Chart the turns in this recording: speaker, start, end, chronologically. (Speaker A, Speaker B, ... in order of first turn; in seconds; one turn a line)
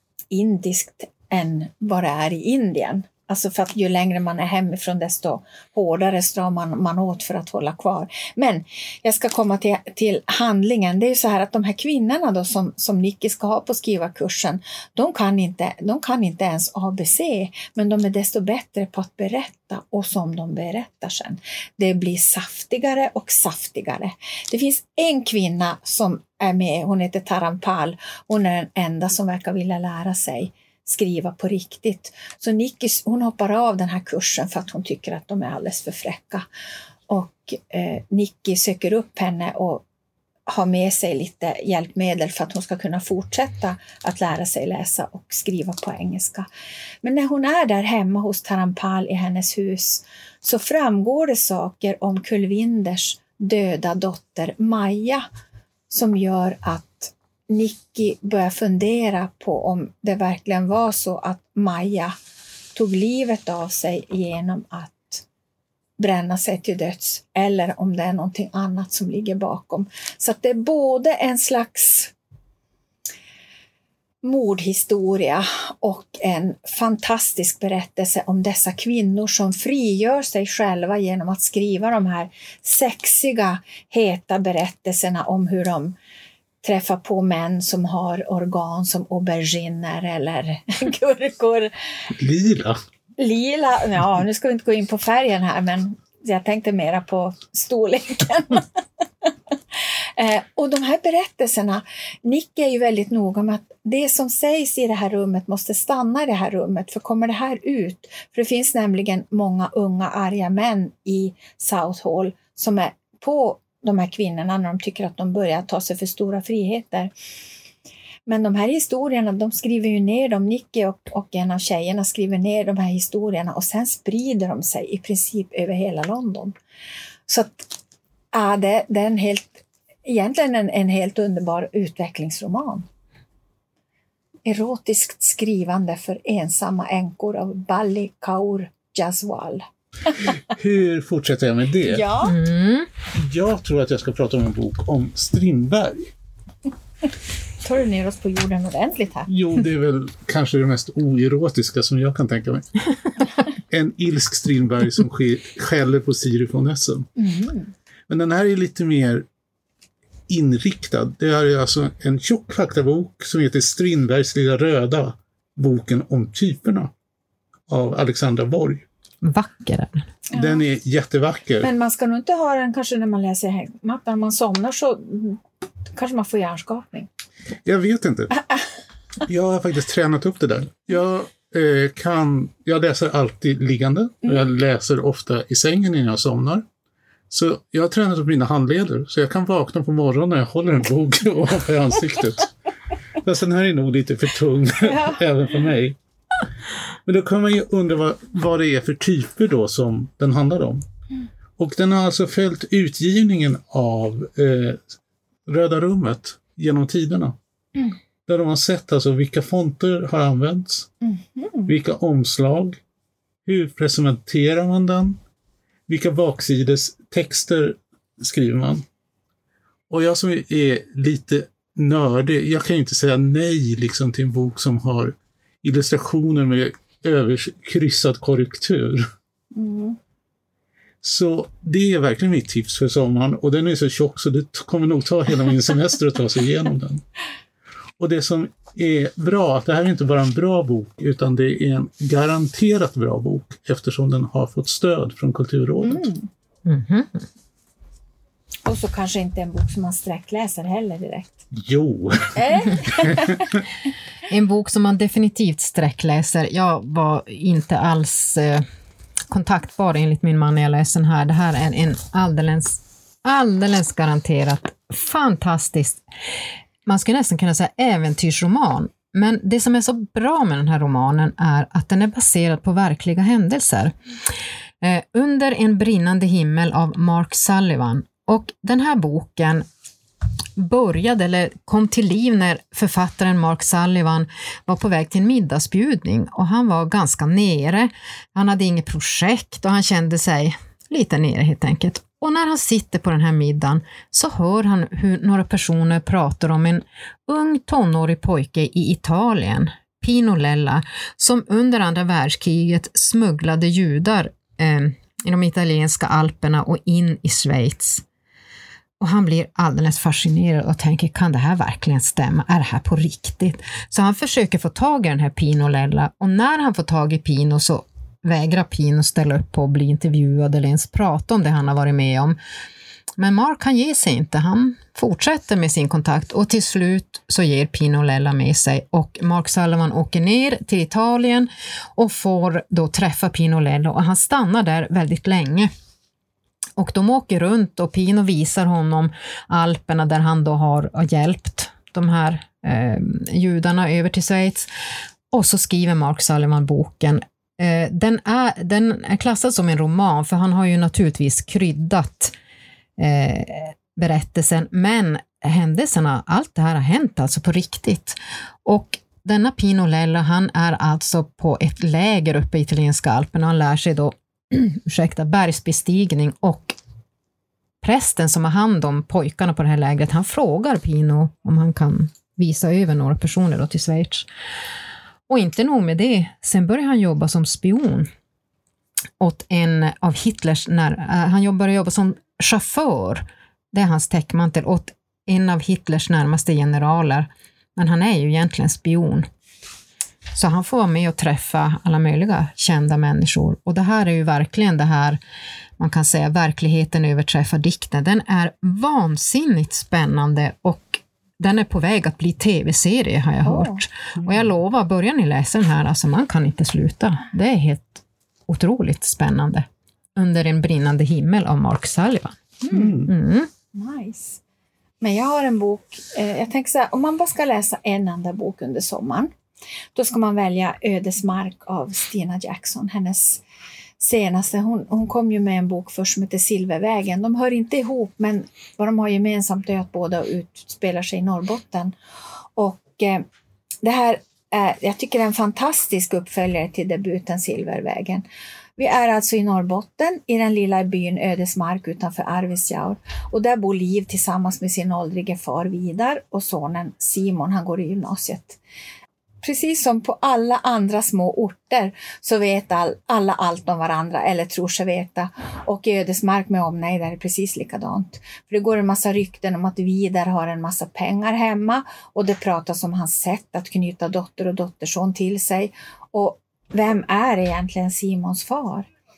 Speaker A: 0.3-36.4
Speaker A: 37.1-39.8
Speaker A: 40.5-46.5
Speaker A: 47.0-55.2
Speaker A: 55.9-62.1
Speaker A: 62.7-65.2
Speaker A: 66.0-72.1
Speaker A: 74.2-85.9
Speaker A: 86.6-91.7
Speaker B: 92.1-92.8
Speaker A: 93.2-98.6
Speaker A: 100.2-117.1
Speaker A: 118.2-126.5
Speaker A: 127.3-127.7
Speaker A: 128.3-132.8
Speaker A: 134.4-139.7
Speaker B: 140.5-142.1
Speaker A: 141.8-142.4
Speaker C: 142.2-142.9
Speaker B: 143.1-146.1
Speaker A: 147.6-149.3
Speaker B: 149.3-152.8
Speaker B: 153.5-157.1
Speaker A: 157.2-157.7
Speaker B: 158.1-159.2
Speaker B: 160.3-166.9
Speaker B: 167.7-168.8
Speaker C: 169.2-170.1
Speaker A: 170.3-170.6
Speaker B: 170.3-171.7
Speaker A: 171.6-175.4
Speaker A: 175.9-177.1
Speaker B: 177.6-178.4
Speaker B: 179.2-186.6
Speaker B: 187.3-192.5
Speaker B: 193.2-195.9
Speaker A: 194.8-195.2
Speaker B: 197.1-200.8
Speaker B: 201.6-204.8
Speaker B: 205.5-207.4
Speaker B: 208.3-210.9
Speaker A: 211.0-211.7
Speaker B: 211.7-212.8
Speaker B: 213.4-215.2
Speaker B: 215.9-218.8
Speaker B: 219.9-229.1
Speaker A: 229.5-230.0
Speaker B: 231.0-237.0
Speaker B: 238.0-246.1
Speaker A: 245.8-246.3
Speaker C: 246.6-247.2
Speaker A: 248.7-251.4
Speaker B: 251.5-253.6
Speaker A: 252.3-253.5
Speaker C: 254.3-258.6
Speaker C: 259.3-266.0
Speaker C: 266.8-273.9
Speaker C: 274.8-279.6
Speaker C: 280.6-308.0
Speaker C: 309.0-322.4
Speaker C: 323.2-335.7
Speaker C: 336.8-344.7
Speaker C: 345.3-352.3
Speaker C: 353.0-366.8
Speaker C: 367.8-374.3
Speaker C: 375.3-378.1
Speaker C: 379.2-389.3
Speaker C: 390.3-395.2
Speaker C: 395.8-413.5
Speaker A: 403.4-403.8
Speaker A: 412.6-412.9
Speaker B: 412.7-413.1
Speaker A: 413.7-414.4
Speaker A: 415.0-419.3
Speaker A: 419.9-423.4
Speaker A: 424.0-431.9
Speaker A: 432.6-433.2
Speaker A: 433.8-438.2
Speaker A: 438.8-448.6
Speaker A: 449.4-468.9